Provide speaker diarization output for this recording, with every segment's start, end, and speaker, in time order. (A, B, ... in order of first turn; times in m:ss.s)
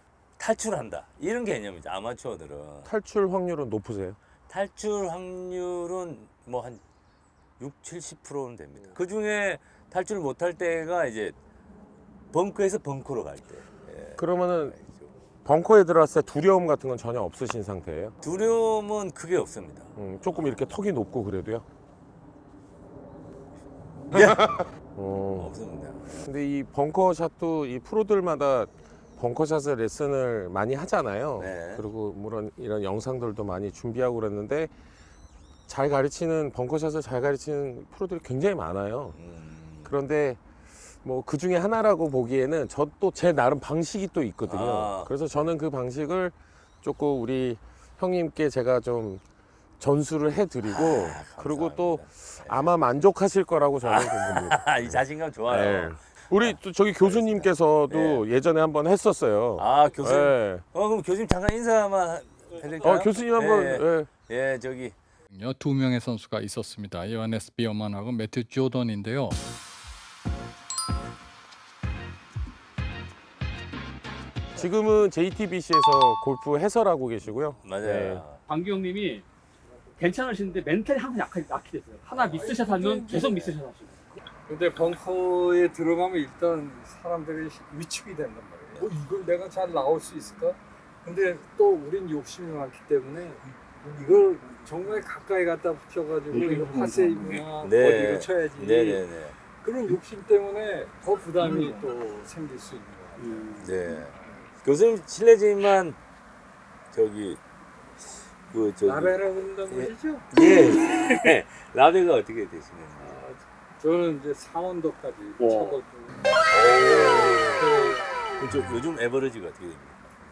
0:00.4-0:02.9 A
0:02.9-0:04.2 B
0:04.5-0:06.8 A
0:07.6-0:11.4 A
0:12.3-0:15.1 A
0:14.2-0:14.8 B
0:15.4-0:18.2 B
0:18.2-0:19.9 A
0:20.0-0:21.6 B
0:24.1-0:24.5 A
0:24.2-0:25.5 B
0:25.4-0:26.2 A
0:26.2-0:34.7 B
0:31.4-0:31.8 A
0:35.7-0:39.2 B
0:39.2-0:39.9 A
0:39.8-0:40.4 B
0:41.0-0:49.2 B
0:44.5-0:45.1 A
0:49.8-1:00.6 B
0:50.7-0:52.7 A
0:53.8-0:58.2 A
0:59.6-1:05.0 A
1:02.8-1:04.1 B
1:05.3-1:09.4 C
1:14.5-1:18.2 B
1:17.6-1:18.4 A
1:18.5-1:19.2 D
1:20.0-1:23.9 D
1:22.2-1:23.5 E
1:24.5-1:39.0 E
1:36.3-1:37.4 D
1:37.6-1:39.4 A
1:39.6-1:44.0 E
1:41.4-1:41.8 D
1:43.2-1:43.6 D
1:43.6-1:46.0 A
1:46.9-1:47.4 A
1:48.5-1:49.2 A
1:48.8-1:50.3 E
1:49.7-1:53.2 A
1:53.0-1:56.2 E
1:55.4-1:55.8 D
1:56.5-1:57.7 A
1:57.6-1:58.1 E
1:58.4-2:00.1 A